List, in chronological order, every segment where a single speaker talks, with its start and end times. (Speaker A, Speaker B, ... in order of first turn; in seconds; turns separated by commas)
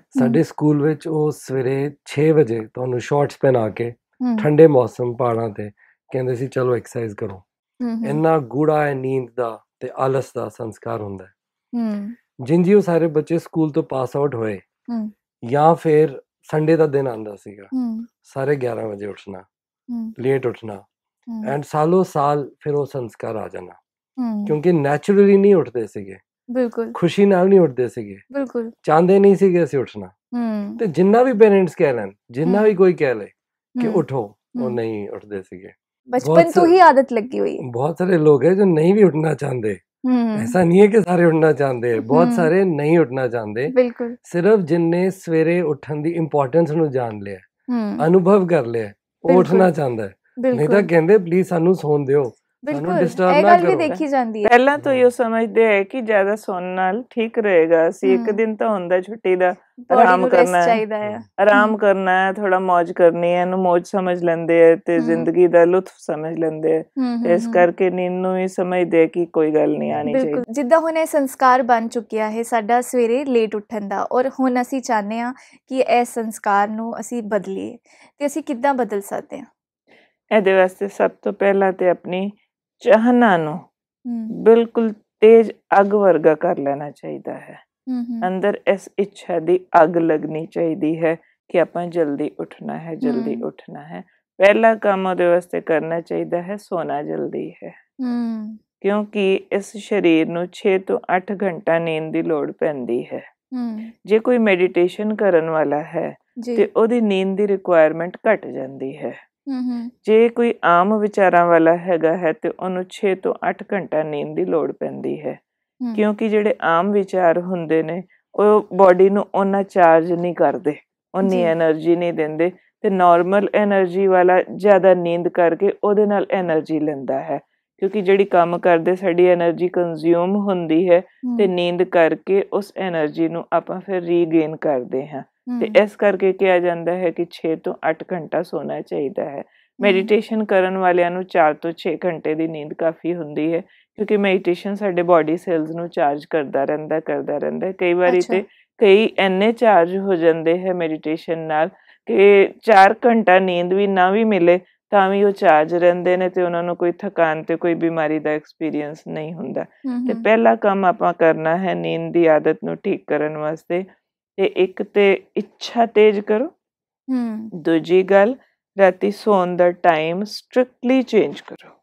Speaker A: 0.1-7.4, Speaker B: 4.2-4.5, Speaker B: 7.8-8.2, Speaker A: 8.0-11.3, Speaker B: 11.7-12.1, Speaker A: 12.4-14.6, Speaker A: 15.4-17.7, Speaker B: 17.7-18.1, Speaker A: 18.2-19.4, Speaker A: 20.2-20.8, Speaker B: 21.3-21.5, Speaker A: 21.4-23.8, Speaker B: 24.2-24.6, Speaker A: 24.4-26.2, Speaker B: 26.5-26.9, Speaker A: 26.9-28.2, Speaker B: 28.3-28.7, Speaker A: 28.8-30.1, Speaker B: 30.3-30.8, Speaker A: 30.8-36.7, Speaker B: 32.4-32.7, Speaker B: 33.8-34.0, Speaker B: 36.1-37.6, Speaker A: 37.6-39.8, Speaker B: 40.0-40.5, Speaker A: 40.4-47.4, Speaker B: 42.0-42.5, Speaker B: 43.7-44.1, Speaker B: 47.7-48.1, Speaker A: 48.0-53.9, Speaker B: 49.3-49.7, Speaker B: 50.4-50.9, Speaker B: 52.6-54.5, Speaker C: 53.7-60.8, Speaker A: 54.8-55.1, Speaker B: 58.0-58.4, Speaker B: 59.8-61.8, Speaker C: 61.4-70.4, Speaker B: 65.0-65.3, Speaker B: 67.0-67.6, Speaker B: 70.1-79.5, Speaker C: 80.3-83.6, Speaker B: 84.1-84.3, Speaker C: 84.3-87.6, Speaker B: 87.9-88.3, Speaker C: 88.2-97.8, Speaker B: 93.0-93.4, Speaker B: 98.0-98.6, Speaker C: 98.8-103.3, Speaker B: 103.5-103.9, Speaker C: 104.0-109.2, Speaker B: 106.4-106.7, Speaker B: 109.5-109.9, Speaker C: 110.0-115.4, Speaker C: 115.9-163.8, Speaker B: 121.2-121.5, Speaker B: 131.2-131.5, Speaker B: 135.5-135.8, Speaker B: 139.8-140.1, Speaker B: 148.1-148.4, Speaker B: 159.8-160.2, Speaker C: 164.4-166.5, Speaker B: 167.1-167.5, Speaker C: 167.5-171.7